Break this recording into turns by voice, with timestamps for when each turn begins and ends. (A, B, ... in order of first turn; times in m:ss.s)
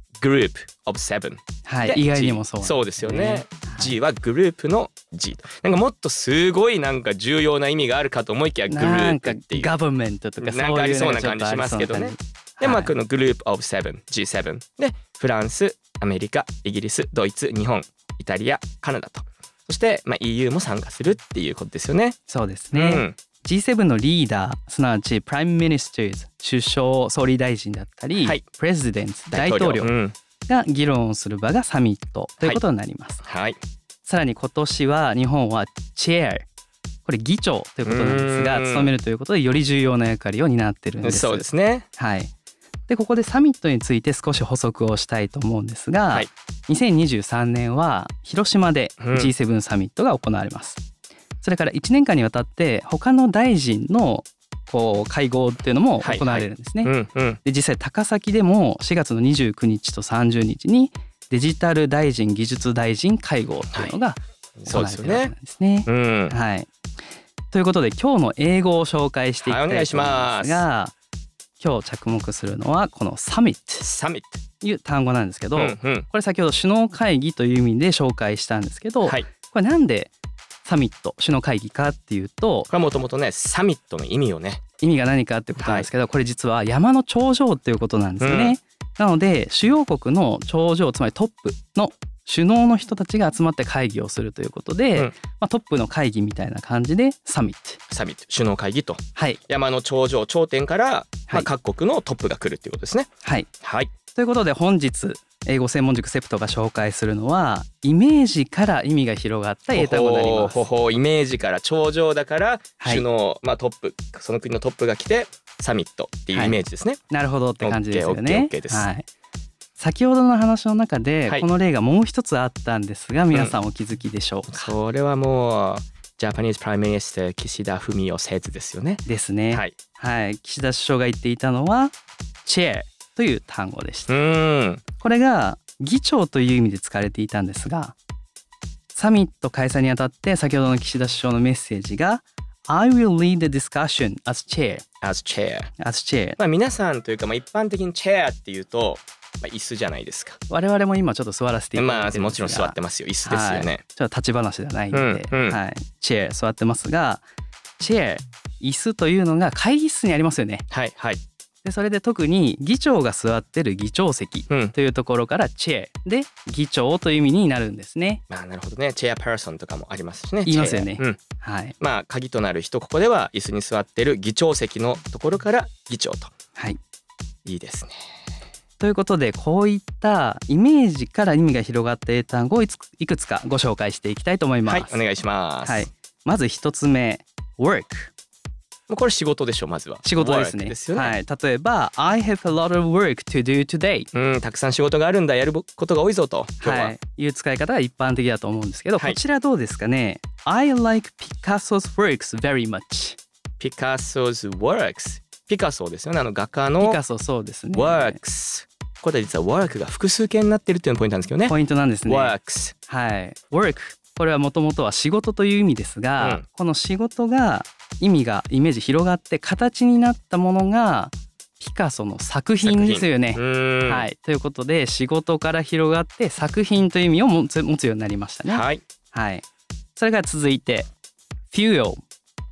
0:00.2-0:09.7 A
0:01.7-0:04.0 B
0:08.7-0:12.9 B
0:10.4-0:22.2 A
0:22.3-0:29.9 B
0:22.7-0:23.2 A
0:28.2-0:28.4 A
0:29.3-0:30.2 A
0:30.5-0:33.2 B
0:33.2-0:33.6 A
0:34.0-0:36.4 B
0:37.0-0:42.3 B
0:37.8-0:38.9 A
0:41.0-0:41.9 A
0:42.9-0:50.8 B
0:49.0-0:49.3 A
0:51.4-1:06.7 B
0:56.0-0:57.4 A
1:04.6-1:05.3 A
1:05.9-1:06.4 A
1:07.5-1:10.9 B
1:09.4-1:10.6 A
1:11.6-1:13.9 B
1:13.8-1:14.4 A
1:14.6-1:20.1 B
1:15.6-1:16.1 A
1:20.6-1:22.7 B
1:22.7-1:24.6 A
1:24.8-1:37.8 B
1:25.6-1:25.9 A
1:28.2-1:28.6 A
1:37.9-1:43.1 A
1:39.2-1:39.4 B
1:43.2-1:43.5 B
1:43.6-1:43.9 A
1:44.1-1:50.6 B
1:49.7-1:57.0 A
1:52.8-1:53.1 B
1:56.3-1:56.6 B
1:57.1-1:59.1 B
1:57.6-1:58.9 A
1:59.8-2:04.8 B
2:04.5-2:09.7 A
2:09.0-2:14.1 B
2:14.1-2:14.8 A
2:15.0-2:18.0 B
2:18.9-2:24.8 B
2:25.0-2:25.7 A
2:25.8-2:26.4 B
2:26.4-2:30.4 A
2:30.5-2:37.2 B
2:31.8-2:33.8 A
2:34.9-2:35.6 A
2:37.8-2:40.6 B
2:40.7-2:41.2 A
2:41.6-2:48.2 B
2:44.5-2:44.7 A
2:48.3-2:51.2 A
2:50.5-2:51.8 B
2:51.8-2:56.3 A
2:57.4-2:58.1 A
2:58.8-3:05.0 B
3:04.7-3:05.9 A
3:05.6-3:08.1 B
3:08.9-3:11.2 A
3:10.0-3:14.1 B
3:14.1-3:17.0 A
3:16.6-3:23.2 B
3:23.6-3:27.0 A
3:26.8-3:28.2 B
3:27.7-3:31.6 A
3:31.5-3:32.4 B
3:32.1-3:32.8 A
3:32.9-3:49.4 B
3:42.6-3:44.1 A
3:48.5-3:48.8 A
3:50.0-3:50.9 B
3:51.5-3:52.0 B